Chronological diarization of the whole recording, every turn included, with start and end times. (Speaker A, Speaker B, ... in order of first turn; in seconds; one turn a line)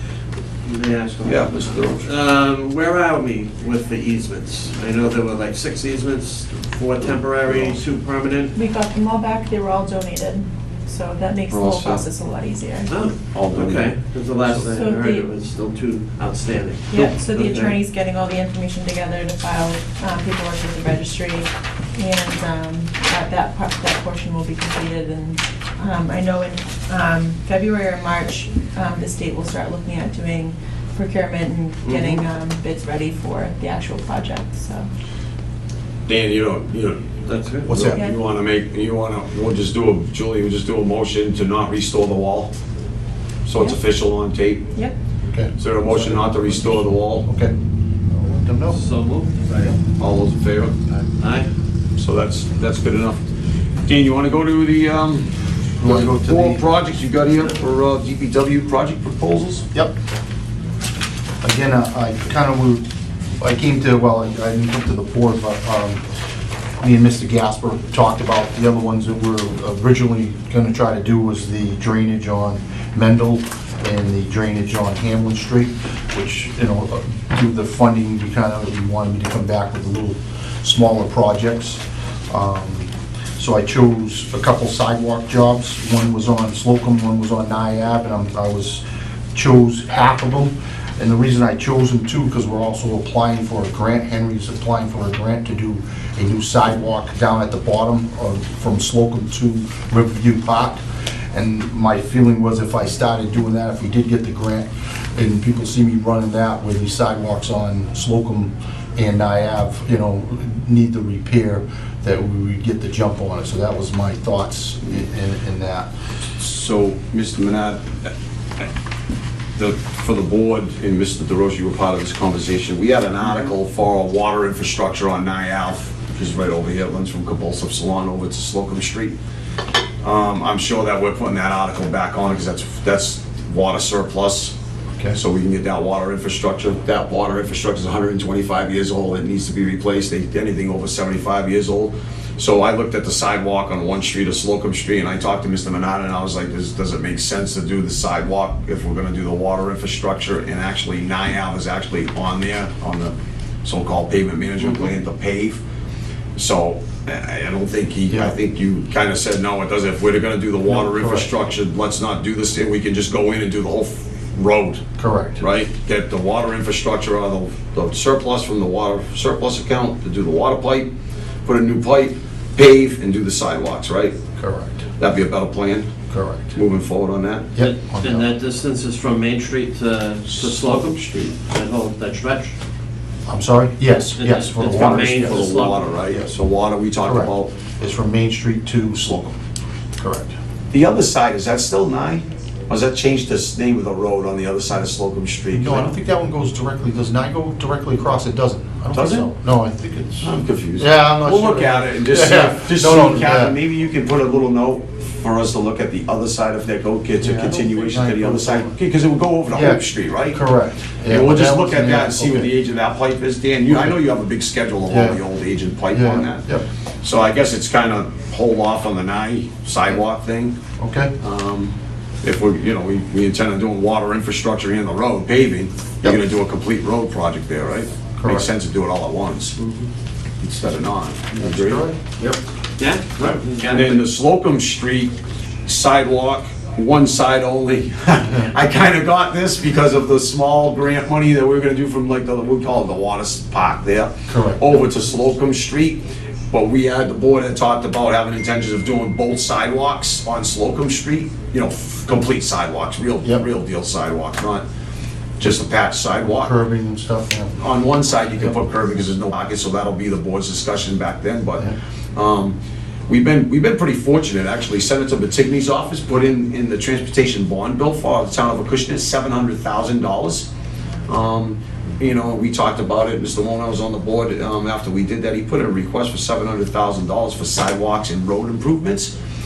Speaker A: 0.7-8.6
Speaker B: 1.2-2.1
Speaker B: 7.0-7.8
Speaker C: 8.6-12.9
Speaker B: 11.5-12.1
Speaker A: 12.9-17.8
Speaker B: 13.3-13.9
Speaker C: 14.5-15.3
Speaker C: 16.9-34.9
Speaker A: 31.9-32.2
Speaker B: 36.1-37.1
Speaker A: 37.3-37.7
Speaker D: 37.7-38.0
Speaker B: 37.7-42.5
Speaker B: 43.5-44.7
Speaker D: 45.3-47.5
Speaker B: 45.6-47.3
Speaker D: 48.1-48.8
Speaker A: 48.7-49.8
Speaker B: 50.0-50.8
Speaker A: 51.2-51.5
Speaker B: 52.0-53.2
Speaker B: 53.9-55.3
Speaker D: 55.8-56.6
Speaker B: 55.8-59.7
Speaker D: 61.4-62.9
Speaker D: 63.4-66.0
Speaker D: 66.8-88.8
Speaker D: 89.3-100.8
Speaker D: 101.3-115.9
Speaker B: 116.4-118.7
Speaker B: 119.6-129.2
Speaker B: 130.0-134.5
Speaker B: 135.1-155.6
Speaker B: 156.4-164.9
Speaker D: 160.7-161.3
Speaker D: 165.0-165.4
Speaker B: 165.4-170.9
Speaker B: 171.4-174.2
Speaker D: 174.4-174.8
Speaker B: 175.0-175.9
Speaker D: 176.1-176.6
Speaker B: 176.5-177.5
Speaker D: 177.6-178.3
Speaker A: 177.6-182.6
Speaker B: 180.6-181.3
Speaker D: 183.3-185.5
Speaker A: 184.2-185.9
Speaker B: 184.7-187.5
Speaker D: 187.1-189.4
Speaker D: 190.0-190.3
Speaker B: 190.7-195.9
Speaker D: 195.5-203.5
Speaker B: 198.9-199.3
Speaker B: 200.2-210.4
Speaker D: 207.2-208.8
Speaker D: 209.5-212.5
Speaker B: 211.1-216.5
Speaker D: 214.9-215.2
Speaker D: 215.9-216.7
Speaker B: 217.0-220.6
Speaker D: 220.8-221.1
Speaker B: 221.2-229.6
Speaker D: 228.2-228.5
Speaker A: 229.6-229.9
Speaker B: 230.4-231.9
Speaker D: 231.4-232.0
Speaker A: 232.2-234.0
Speaker B: 233.5-235.1
Speaker B: 235.7-254.7
Speaker D: 244.3-244.6
Speaker B: 255.4-256.5
Speaker D: 256.4-257.6
Speaker B: 257.6-270.5
Speaker B: 271.1-279.1